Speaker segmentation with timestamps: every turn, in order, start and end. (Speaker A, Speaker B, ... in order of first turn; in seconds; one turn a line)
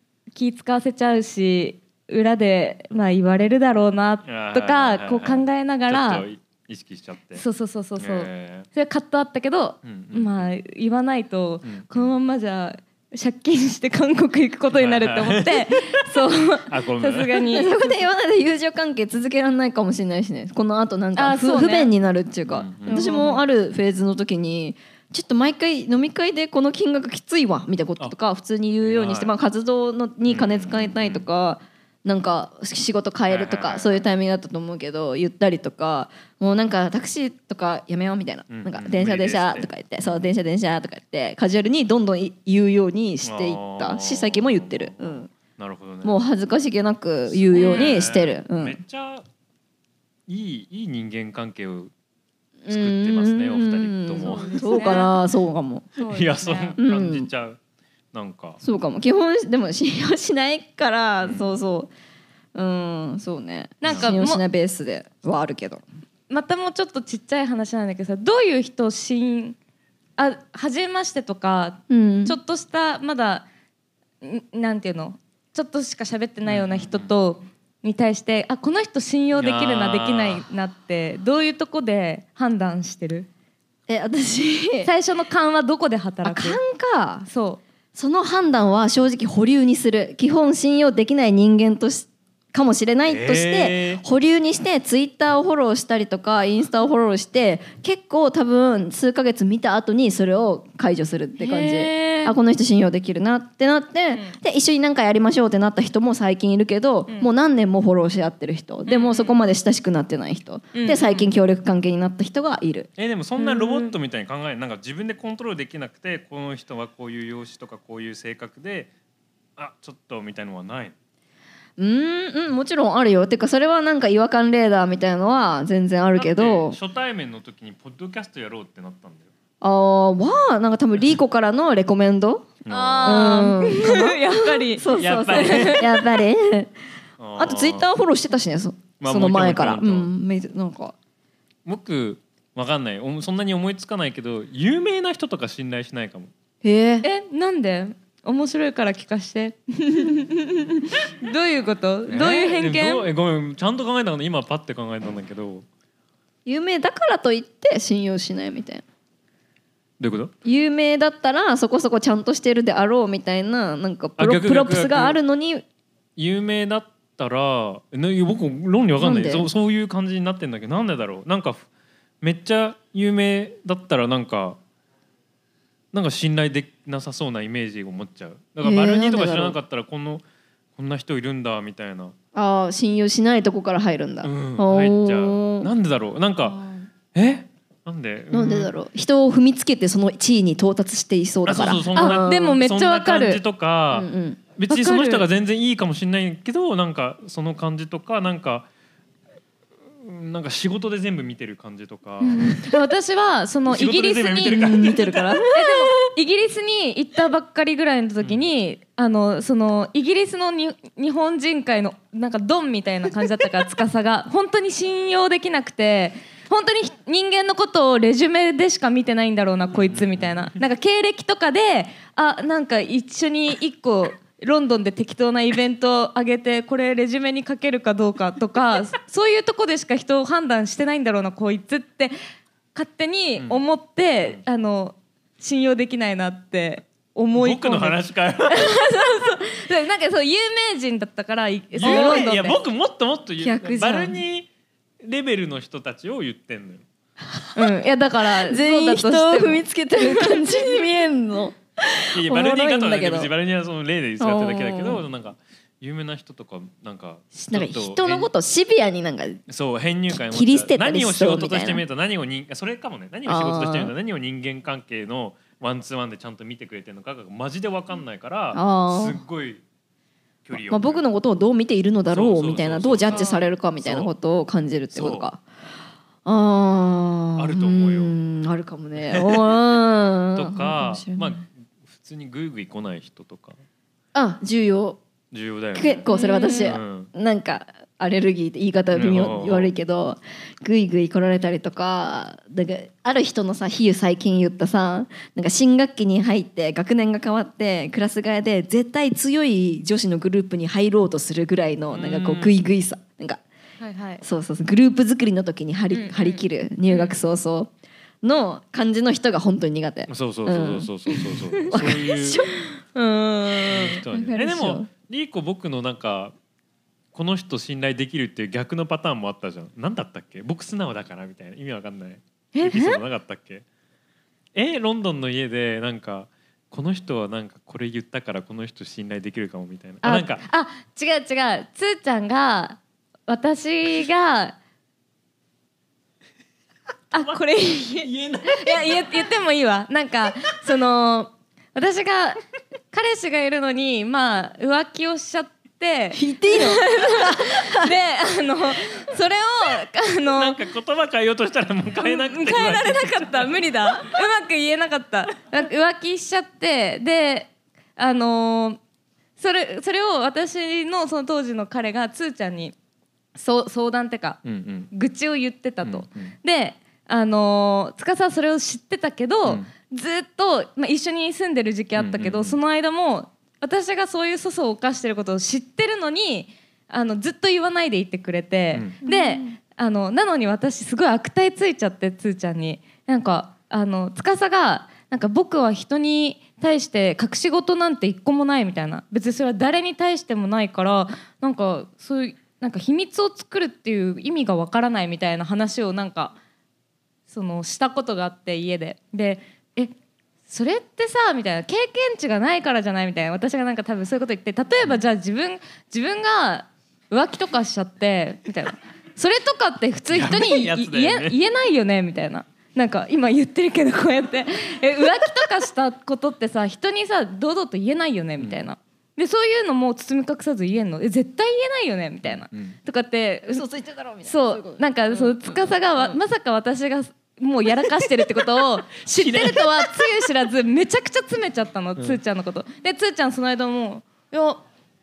Speaker A: 0.3-6.2
Speaker B: 4.2-7.4
Speaker A: 7.3-17.8
Speaker B: 8.0-8.7
Speaker B: 9.8-10.5
Speaker B: 11.6-12.1
Speaker B: 14.7-16.0
Speaker B: 16.7-17.5
Speaker C: 17.5-45.3
Speaker A: 21.1-21.9
Speaker B: 22.5-23.1
Speaker A: 22.9-23.4
Speaker B: 28.8-29.3
Speaker B: 30.3-31.2
Speaker B: 33.3-34.0
Speaker B: 38.5-40.3
Speaker B: 43.2-46.2
Speaker C: 46.0-48.8
Speaker B: 47.3-49.2
Speaker A: 47.5-47.9
Speaker B: 50.3-51.9
Speaker C: 52.6-55.9
Speaker B: 52.7-54.9
Speaker A: 54.2-55.1
Speaker A: 56.0-56.8
Speaker B: 56.0-57.6
Speaker C: 56.8-57.3
Speaker B: 58.1-58.6
Speaker C: 58.6-61.9
Speaker B: 61.2-61.5
Speaker C: 62.5-65.8
Speaker A: 63.8-64.4
Speaker B: 63.9-64.1
Speaker A: 66.3-69.6
Speaker A: 70.2-73.5
Speaker C: 71.9-72.4
Speaker A: 74.2-83.3
Speaker B: 76.4-77.1
Speaker B: 79.3-80.4
Speaker C: 83.9-84.9
Speaker A: 84.8-86.6
Speaker C: 86.2-87.2
Speaker A: 87.2-87.6
Speaker C: 87.9-112.9
Speaker B: 93.1-94.0
Speaker A: 101.4-102.3
Speaker A: 108.8-109.4
Speaker A: 110.7-111.3
Speaker B: 113.0-118.9
Speaker A: 113.4-113.9
Speaker B: 119.6-120.9
Speaker C: 121.8-126.8
Speaker B: 126.2-129.3
Speaker C: 129.6-136.7
Speaker B: 132.6-133.4
Speaker A: 132.7-136.2
Speaker B: 134.9-135.8
Speaker B: 137.2-137.9
Speaker C: 137.3-140.9
Speaker B: 139.0-140.1
Speaker B: 141.6-146.3
Speaker C: 146.6-147.1
Speaker A: 147.0-153.1
Speaker B: 152.1-155.6
Speaker C: 156.4-158.8
Speaker B: 160.0-160.3
Speaker C: 160.4-165.6
Speaker B: 164.2-165.2
Speaker B: 166.2-171.7
Speaker C: 169.0-169.5
Speaker B: 172.2-174.6
Speaker B: 175.9-180.2
Speaker C: 178.6-179.6
Speaker B: 180.8-182.1
Speaker C: 182.3-185.7
Speaker B: 184.2-186.6
Speaker B: 187.1-188.7
Speaker C: 188.3-192.6
Speaker B: 191.4-198.7
Speaker A: 191.9-193.4
Speaker C: 193.9-194.4
Speaker A: 194.7-195.2
Speaker B: 199.9-202.7
Speaker A: 202.2-204.8
Speaker B: 203.7-205.4
Speaker C: 204.5-206.1
Speaker A: 205.5-232.1
Speaker B: 219.7-220.5
Speaker A: 232.7-242.6
Speaker B: 237.3-238.9
Speaker B: 241.8-244.5
Speaker C: 241.8-242.3
Speaker C: 243.4-244.2
Speaker B: 245.0-246.8
Speaker C: 247.3-247.8
Speaker A: 247.6-250.8
Speaker C: 248.4-253.3
Speaker B: 252.1-258.3
Speaker C: 254.2-255.0
Speaker C: 257.3-259.4
Speaker B: 259.5-269.6
Speaker C: 260.2-261.8
Speaker C: 263.2-263.9
Speaker C: 268.5-269.2
Speaker B: 270.4-271.0
Speaker C: 270.5-275.4
Speaker B: 272.1-274.1
Speaker A: 273.1-273.4
Speaker B: 274.9-275.3
Speaker C: 276.2-281.4
Speaker B: 277.4-278.1
Speaker B: 279.1-279.8
Speaker B: 280.3-283.6
Speaker C: 284.1-285.0
Speaker B: 285.3-287.1
Speaker C: 285.7-303.4
Speaker A: 286.1-286.7
Speaker B: 288.9-289.7
Speaker B: 301.9-302.6
Speaker A: 303.8-304.2
Speaker C: 304.2-307.7
Speaker A: 305.9-307.1
Speaker C: 308.2-312.6
Speaker B: 310.1-312.4
Speaker A: 312.9-314.0
Speaker B: 313.7-316.3
Speaker C: 314.1-314.9
Speaker B: 317.1-323.6
Speaker A: 322.5-323.0
Speaker B: 324.5-330.4
Speaker A: 330.0-334.6
Speaker A: 337.1-350.6
Speaker B: 337.1-339.3
Speaker C: 346.1-347.9
Speaker B: 350.3-353.6
Speaker A: 352.0-358.8
Speaker A: 359.4-362.7
Speaker A: 363.4-364.4
Speaker B: 364.4-364.9
Speaker A: 364.9-396.4
Speaker B: 365.8-366.3
Speaker B: 371.9-372.6
Speaker B: 378.7-379.0
Speaker C: 379.0-379.4
Speaker A: 397.3-399.9
Speaker A: 400.5-423.6
Speaker B: 410.1-411.4
Speaker B: 422.2-422.8
Speaker C: 423.5-425.3
Speaker A: 424.2-434.6
Speaker B: 429.1-429.7